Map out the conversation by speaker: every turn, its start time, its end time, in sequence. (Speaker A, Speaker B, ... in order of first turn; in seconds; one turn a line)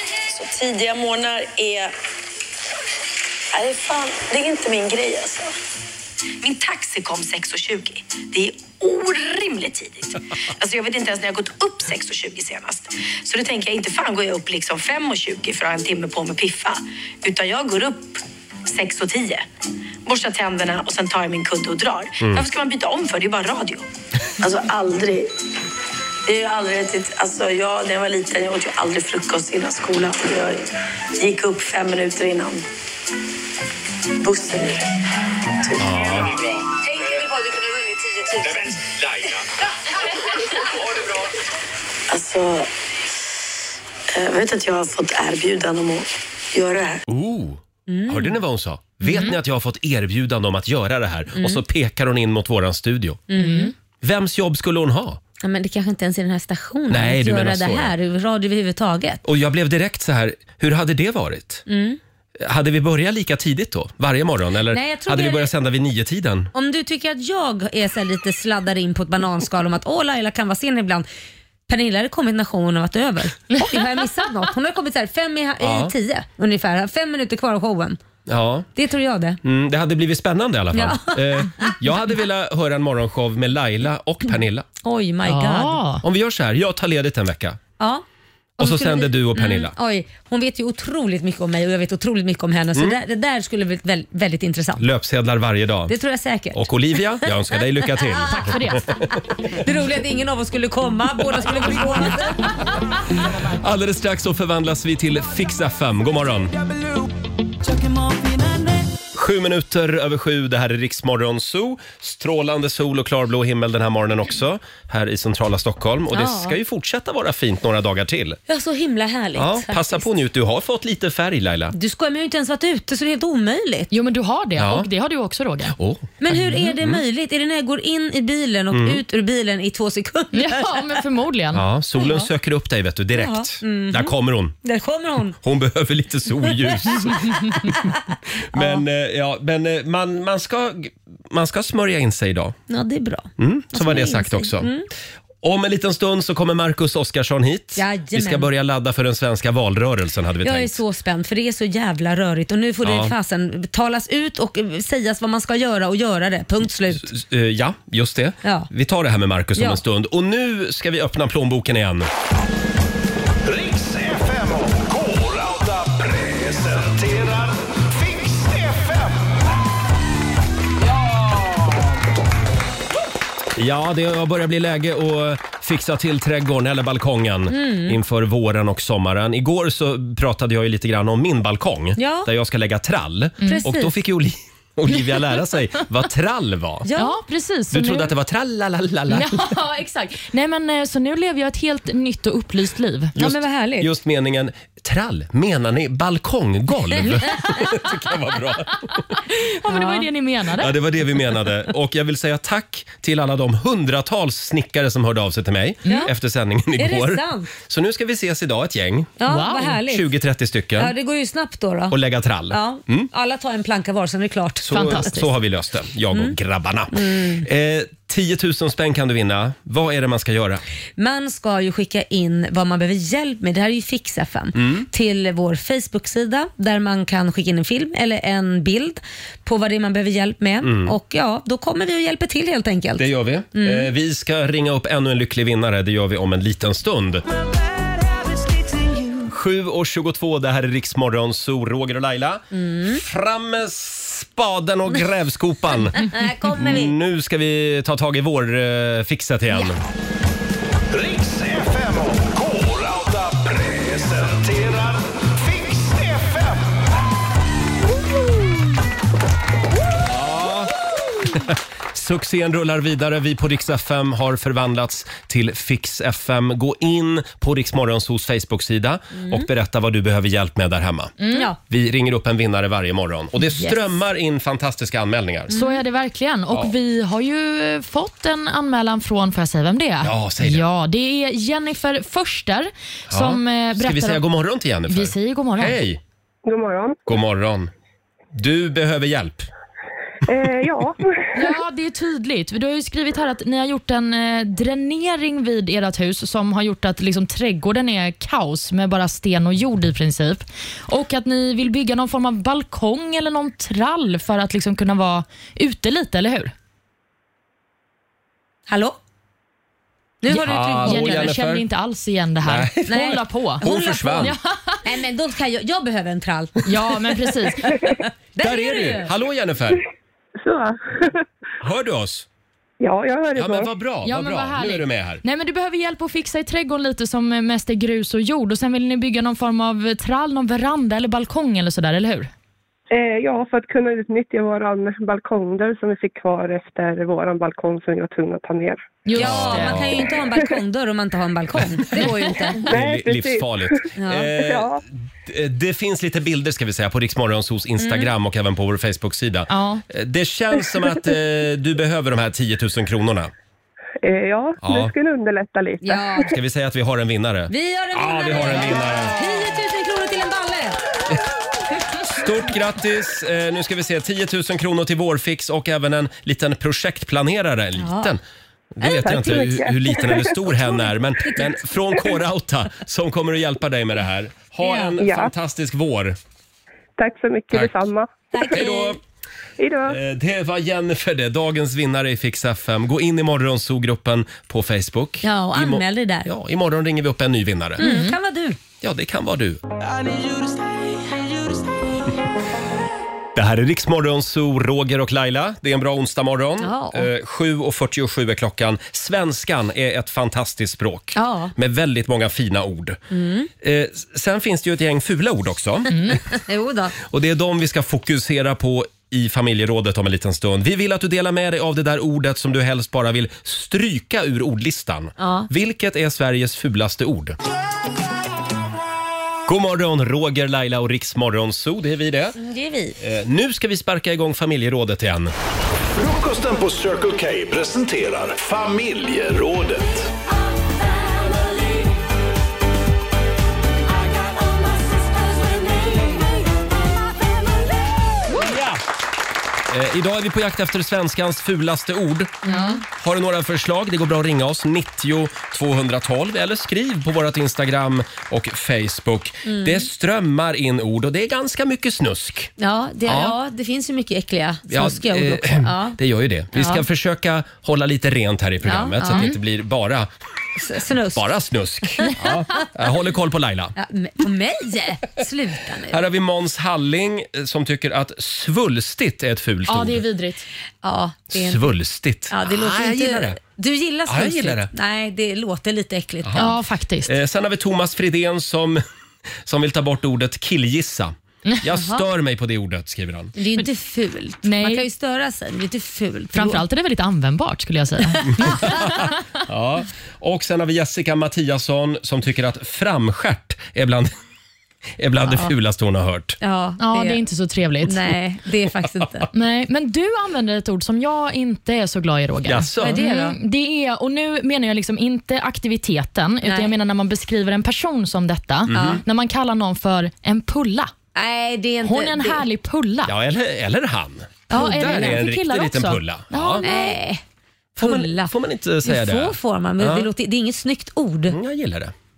Speaker A: 0.3-1.9
Speaker A: 3.5-5.5
Speaker A: 6.4-18.2
Speaker A: 18.7-19.4
Speaker A: 20.1-23.8
Speaker B: 22.2-22.4
Speaker A: 24.4-25.3
Speaker A: 26.3-30.6
Speaker A: 31.2-32.6
Speaker A: 34.2-34.8
Speaker B: 35.8-36.4
Speaker A: 37.0-38.8
Speaker A: 42.1-42.7
Speaker A: 44.1-47.0
Speaker B: 47.1-53.2
Speaker C: 47.9-48.4
Speaker D: 49.1-49.3
Speaker C: 51.3-51.6
Speaker C: 53.3-53.7
Speaker D: 53.4-53.7
Speaker B: 54.0-55.2
Speaker C: 55.4-59.2
Speaker B: 56.9-57.9
Speaker B: 59.2-61.6
Speaker C: 61.7-62.0
Speaker B: 62.4-66.5
Speaker C: 64.7-65.5
Speaker C: 66.5-71.0
Speaker C: 71.7-78.0
Speaker B: 75.6-75.9
Speaker B: 78.3-78.7
Speaker C: 78.8-79.4
Speaker B: 79.4-84.6
Speaker C: 80.7-81.7
Speaker C: 84.8-85.8
Speaker D: 85.2-86.0
Speaker B: 86.0-87.6
Speaker C: 87.8-88.0
Speaker C: 88.6-94.8
Speaker B: 88.6-89.7
Speaker B: 94.8-95.9
Speaker C: 95.9-98.4
Speaker B: 96.5-99.1
Speaker D: 98.2-98.8
Speaker C: 99.5-102.5
Speaker B: 103.5-106.5
Speaker B: 109.1-118.4
Speaker C: 116.1-116.6
Speaker C: 118.5-120.1
Speaker B: 119.3-121.7
Speaker C: 121.7-123.9
Speaker D: 123.9-125.7
Speaker B: 124.6-124.9
Speaker B: 125.7-127.0
Speaker C: 126.2-130.8
Speaker B: 128.7-129.0
Speaker D: 130.3-131.6
Speaker B: 131.5-134.6
Speaker C: 132.0-132.3
Speaker C: 133.1-135.4
Speaker B: 135.4-137.9
Speaker C: 136.4-137.9
Speaker C: 138.5-138.8
Speaker B: 138.5-142.6
Speaker C: 142.7-144.9
Speaker B: 143.4-144.7
Speaker B: 145.4-150.8
Speaker C: 147.8-148.5
Speaker C: 150.4-157.1
Speaker B: 152.8-153.1
Speaker B: 157.0-162.1
Speaker C: 158.4-158.7
Speaker E: 163.4-169.3
Speaker E: 170.9-171.6
Speaker B: 173.5-186.9
Speaker C: 177.5-178.0
Speaker C: 182.0-182.3
Speaker C: 183.4-183.9
Speaker C: 186.8-187.2
Speaker D: 186.9-188.1
Speaker B: 187.7-189.4
Speaker D: 189.1-193.1
Speaker B: 193.2-199.2
Speaker C: 193.2-193.9
Speaker D: 199.3-200.7
Speaker C: 199.7-200.0
Speaker B: 200.6-209.1
Speaker C: 206.8-207.5
Speaker C: 209.2-210.1
Speaker D: 209.2-209.8
Speaker B: 209.7-210.9
Speaker C: 210.8-211.9
Speaker B: 211.9-213.1
Speaker C: 212.5-215.2
Speaker B: 214.6-220.6
Speaker D: 214.7-215.3
Speaker C: 216.1-216.3
Speaker C: 216.9-217.4
Speaker C: 221.0-233.9
Speaker B: 224.6-224.9
Speaker B: 230.6-230.9
Speaker B: 233.0-237.2
Speaker B: 239.2-249.8
Speaker C: 242.5-243.0
Speaker C: 245.9-246.9
Speaker E: 250.9-256.8
Speaker B: 260.1-271.1
Speaker C: 269.1-269.5
Speaker D: 271.2-271.5
Speaker B: 271.7-275.5
Speaker C: 275.5-275.8
Speaker D: 275.5-284.2
Speaker B: 280.0-280.6
Speaker B: 283.1-286.0
Speaker D: 284.9-285.8
Speaker F: 286.4-287.0
Speaker B: 287.1-287.7
Speaker B: 288.3-289.5
Speaker F: 290.3-291.3
Speaker D: 291.3-306.5
Speaker C: 308.7-309.0
Speaker C: 310.2-311.3
Speaker B: 310.3-311.6
Speaker D: 310.8-313.6
Speaker B: 312.4-314.3
Speaker C: 312.9-316.7
Speaker D: 314.2-314.8
Speaker D: 316.6-317.8
Speaker C: 317.7-319.1
Speaker B: 318.4-319.8
Speaker F: 320.4-321.2
Speaker B: 321.6-322.2
Speaker F: 322.8-323.7
Speaker B: 323.3-325.2
Speaker D: 324.0-332.3
Speaker F: 332.9-339.0
Speaker D: 339.1-339.9
Speaker C: 339.1-342.7
Speaker B: 339.1-340.1
Speaker F: 342.6-344.8
Speaker B: 342.7-353.3
Speaker C: 343.9-344.3
Speaker C: 347.8-348.1
Speaker D: 349.5-349.8
Speaker F: 354.0-356.3
Speaker B: 354.6-354.9
Speaker C: 355.8-356.3
Speaker B: 356.3-359.2
Speaker C: 357.5-360.8
Speaker B: 362.0-368.2
Speaker C: 367.8-368.1
Speaker B: 368.8-376.1
Speaker F: 368.8-370.9
Speaker C: 374.6-374.9
Speaker F: 375.0-375.3
Speaker F: 377.0-378.7
Speaker C: 378.3-378.9
Speaker B: 378.5-379.0
Speaker F: 379.6-380.0
Speaker B: 379.9-387.8
Speaker C: 385.2-386.3
Speaker C: 387.8-388.6
Speaker D: 387.8-388.1
Speaker B: 388.8-389.6
Speaker B: 393.3-403.0
Speaker C: 396.6-397.1
Speaker C: 401.1-401.5
Speaker C: 403.1-403.5
Speaker B: 403.6-406.2
Speaker D: 405.9-406.2
Speaker C: 406.3-406.9
Speaker B: 407.0-417.4
Speaker C: 415.2-415.5
Speaker B: 419.5-422.4
Speaker C: 422.4-423.0
Speaker B: 423.0-425.3
Speaker E: 425.9-430.1
Speaker B: 438.3-438.8
Speaker B: 439.7-442.4
Speaker C: 442.4-442.8
Speaker D: 442.5-442.8
Speaker B: 442.9-452.5
Speaker C: 449.4-449.9
Speaker C: 452.6-456.0
Speaker B: 453.1-453.4
Speaker B: 454.7-460.1
Speaker C: 456.5-456.8
Speaker C: 458.6-459.4
Speaker C: 460.6-461.3
Speaker B: 461.1-463.7
Speaker C: 463.8-466.0
Speaker B: 465.9-470.0
Speaker D: 469.7-470.4
Speaker C: 470.8-471.7
Speaker B: 471.3-473.4
Speaker C: 472.3-476.5
Speaker B: 474.1-474.7
Speaker B: 476.2-476.5
Speaker D: 476.4-477.1
Speaker B: 477.1-478.8
Speaker B: 479.4-483.3
Speaker C: 481.7-482.1
Speaker C: 483.4-486.6
Speaker D: 484.4-484.8
Speaker D: 486.3-488.8
Speaker B: 488.3-494.1
Speaker B: 495.0-496.4
Speaker C: 495.2-495.5
Speaker C: 496.4-497.2
Speaker D: 496.8-498.1
Speaker C: 497.8-499.3
Speaker D: 499.3-510.9
Speaker B: 502.4-503.0
Speaker C: 502.8-503.4
Speaker C: 506.4-506.7
Speaker B: 508.7-509.0
Speaker C: 511.1-512.4
Speaker D: 511.8-513.1
Speaker B: 513.1-516.6
Speaker D: 514.5-516.9
Speaker C: 514.6-515.2
Speaker C: 516.6-517.2
Speaker C: 517.8-518.3
Speaker B: 517.8-520.1
Speaker C: 518.8-521.4
Speaker B: 521.3-521.9